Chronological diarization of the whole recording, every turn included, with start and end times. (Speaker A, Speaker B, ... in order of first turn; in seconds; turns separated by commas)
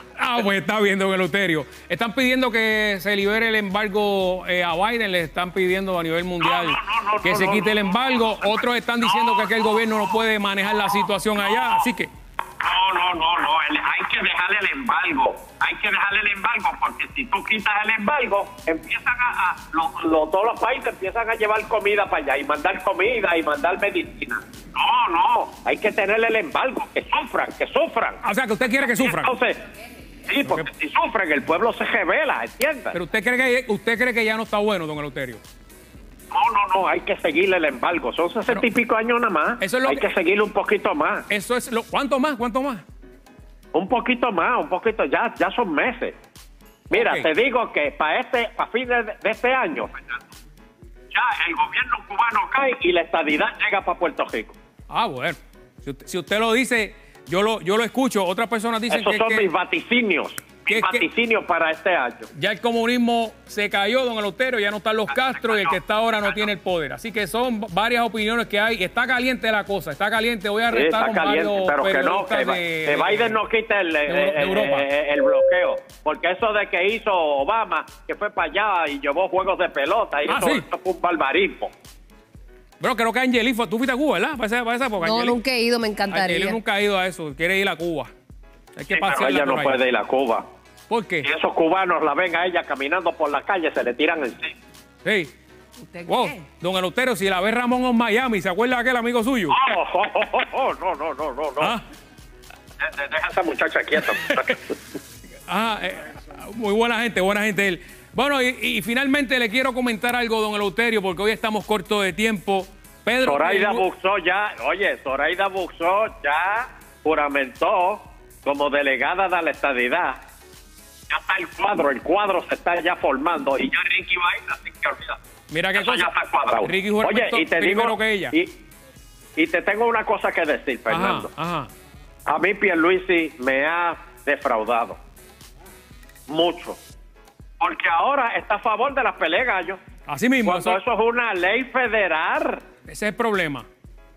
Speaker A: 0.2-12.1, Speaker B: 6.4-10.2, Speaker B: 11.4-11.8, Speaker B: 12.6-29.6, Speaker A: 28.2-29.3, Speaker B: 30.2-33.0, Speaker A: 32.9-35.4, Speaker B: 36.3-41.3, Speaker A: 39.6-40.1, Speaker A: 41.3-42.8, Speaker B: 43.7-46.1, Speaker B: 46.9-50.2, Speaker A: 46.9-47.3, Speaker B: 51.1-54.6, Speaker A: 54.9-59.5, Speaker B: 58.9-62.3, Speaker A: 60.7-61.1, Speaker A: 62.4-73.4, Speaker B: 65.1-66.5, Speaker B: 70.7-81.7, Speaker A: 74.1-74.9, Speaker A: 80.3-80.7, Speaker A: 82.8-85.4, Speaker C: 85.0-86.6, Speaker A: 86.1-88.1, Speaker A: 88.8-89.8, Speaker B: 88.9-90.4, Speaker A: 90.9-91.3, Speaker B: 91.2-94.6, Speaker A: 95.0-95.3, Speaker C: 95.9-96.4, Speaker A: 96.1-99.6, Speaker B: 99.5-101.8, Speaker B: 102.8-104.7, Speaker A: 105.5-113.8, Speaker B: 113.2-120.2, Speaker B: 121.1-125.2, Speaker A: 125.5-128.3, Speaker B: 125.8-128.6, Speaker B: 129.4-131.3, Speaker A: 130.9-131.7, Speaker B: 132.2-135.0, Speaker B: 136.3-136.8, Speaker B: 137.6-139.8, Speaker A: 140.1-140.8, Speaker B: 140.4-142.6, Speaker A: 142.9-143.7